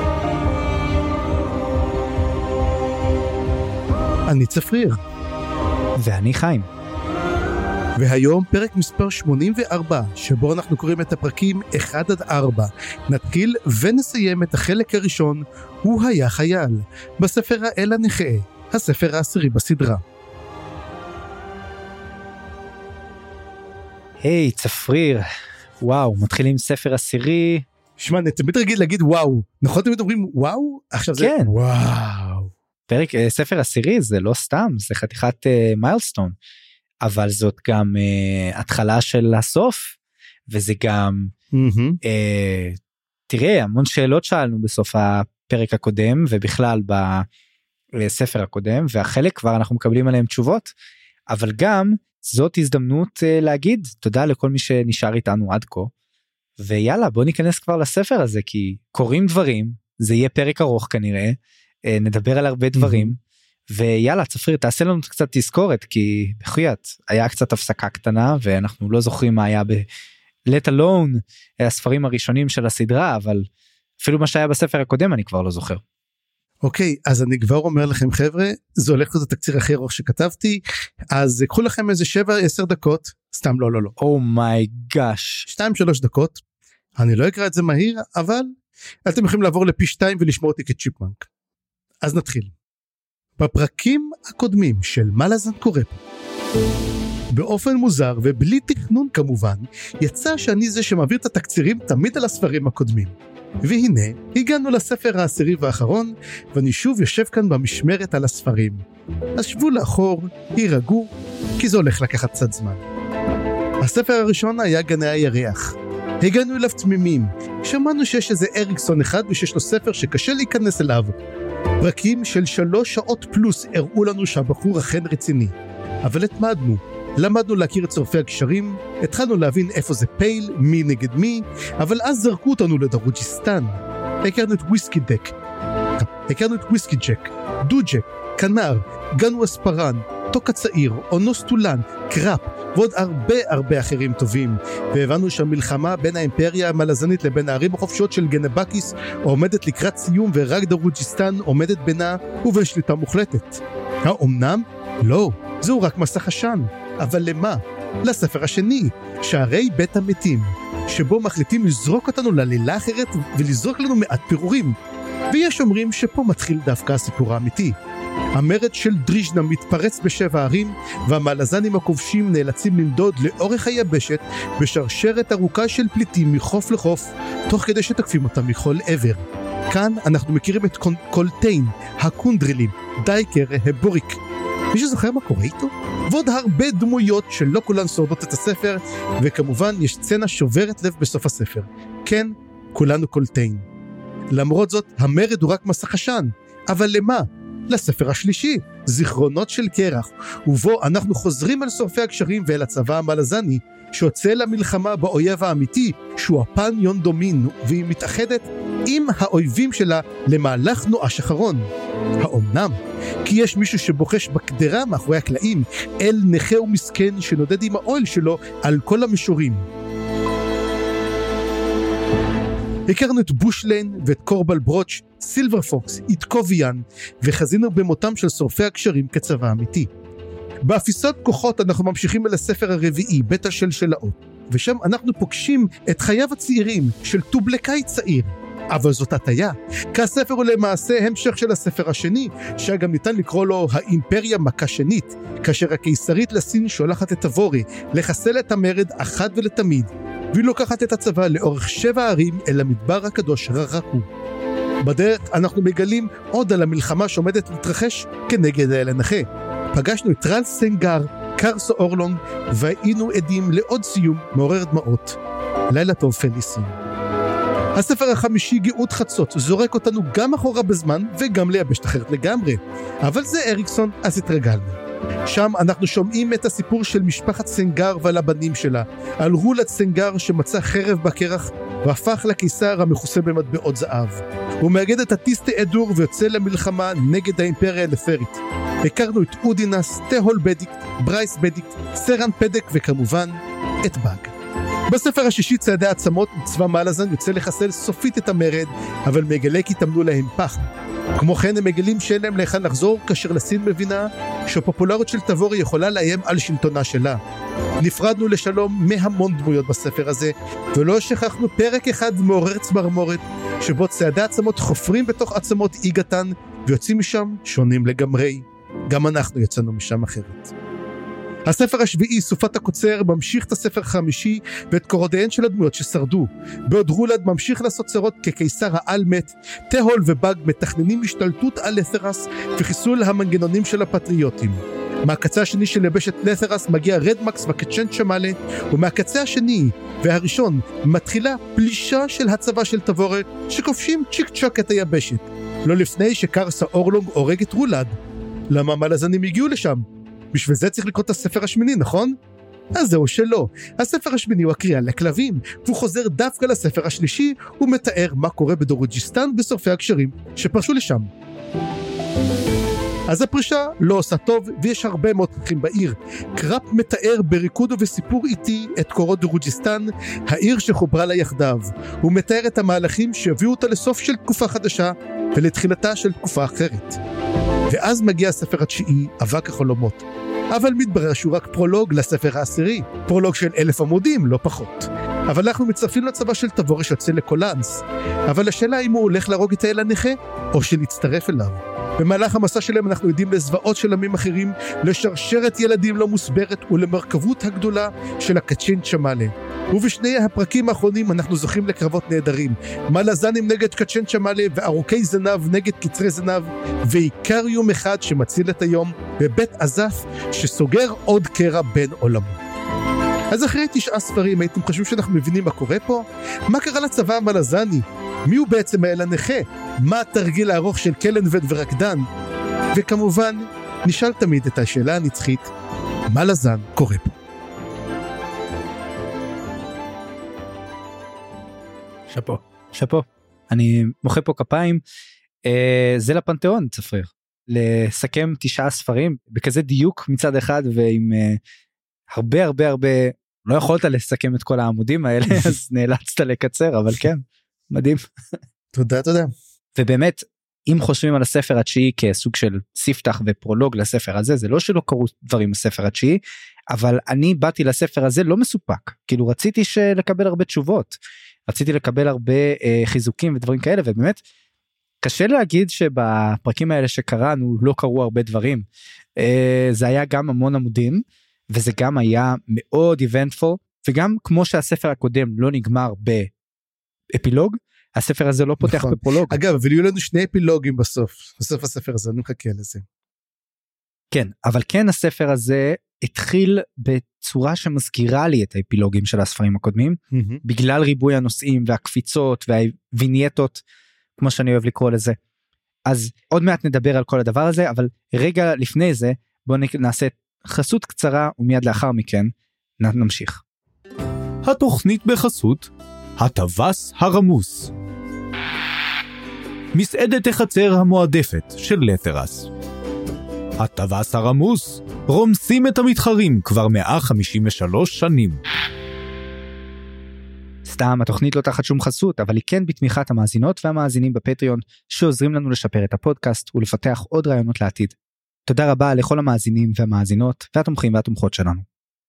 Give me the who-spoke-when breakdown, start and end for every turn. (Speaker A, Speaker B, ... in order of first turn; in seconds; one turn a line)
Speaker A: 4.3-5.0
Speaker B: 6.0-6.7
Speaker A: 8.0-20.0
Speaker B: 24.2-25.3
Speaker B: 25.8-27.6
Speaker A: 28.0-32.5
Speaker B: 31.2-31.5
Speaker B: 32.9-36.4
Speaker B: 37.0-40.0
Speaker B: 40.5-41.3
Speaker A: 41.5-42.0
Speaker B: 42.0-47.3
Speaker B: 48.0-50.7
Speaker B: 51.3-55.9
Speaker B: 56.6-63.2
Speaker A: 62.8-63.1
Speaker B: 63.7-69.8
Speaker B: 70.5-73.5
Speaker B: 74.0-75.8
Speaker A: 76.6-84.0
Speaker B: 84.0-85.5
Speaker A: 85.5-86.4
Speaker A: 87.0-88.5
Speaker A: 89.1-91.3
Speaker A: 92.0-92.5
Speaker A: 93.4-96.0
Speaker A: 97.3-108.8
Speaker A: 109.4-112.8
Speaker A: 113.8-121.1
Speaker A: 121.8-125.5
Speaker A: 126.0-133.7
Speaker A: 134.2-135.3
Speaker A: 136.0-164.8
Speaker A: 165.3-167.8
Speaker A: 168.4-184.2
Speaker A: 184.7-193.7
Speaker A: 194.3-211.7
Speaker A: 212.2-219.7
Speaker A: 222.9-229.9
Speaker A: 230.6-254.1
Speaker A: 254.8-265.2
Speaker A: 265.7-266.7
Speaker A: 267.8-294.3
Speaker A: 294.9-307.2
Speaker A: 307.8-320.5
Speaker A: 321.5-347.9
Speaker A: 348.5-352.1
Speaker A: 352.8-361.1
Speaker A: 363.1-377.0
Speaker A: 377.7-412.4
Speaker A: 413.3-422.1
Speaker A: 422.8-425.5
Speaker A: 426.1-427.2
Speaker B: 432.1-434.8
Speaker B: 435.4-441.4
Speaker B: 442.1-448.0
Speaker A: 448.7-449.3
Speaker B: 449.8-456.2
Speaker B: 456.7-460.9
Speaker B: 461.5-464.2
Speaker B: 465.0-468.6
Speaker B: 469.2-476.3
Speaker B: 477.1-479.4
Speaker A: 478.6-482.8
Speaker B: 484.1-493.6
Speaker A: 490.1-490.4
Speaker B: 494.2-495.2
Speaker B: 495.9-503.4
Speaker C: 504.4-507.7
Speaker C: 509.7-512.5
Speaker C: 513.6-518.4
Speaker B: 520.7-528.0
Speaker B: 528.5-531.6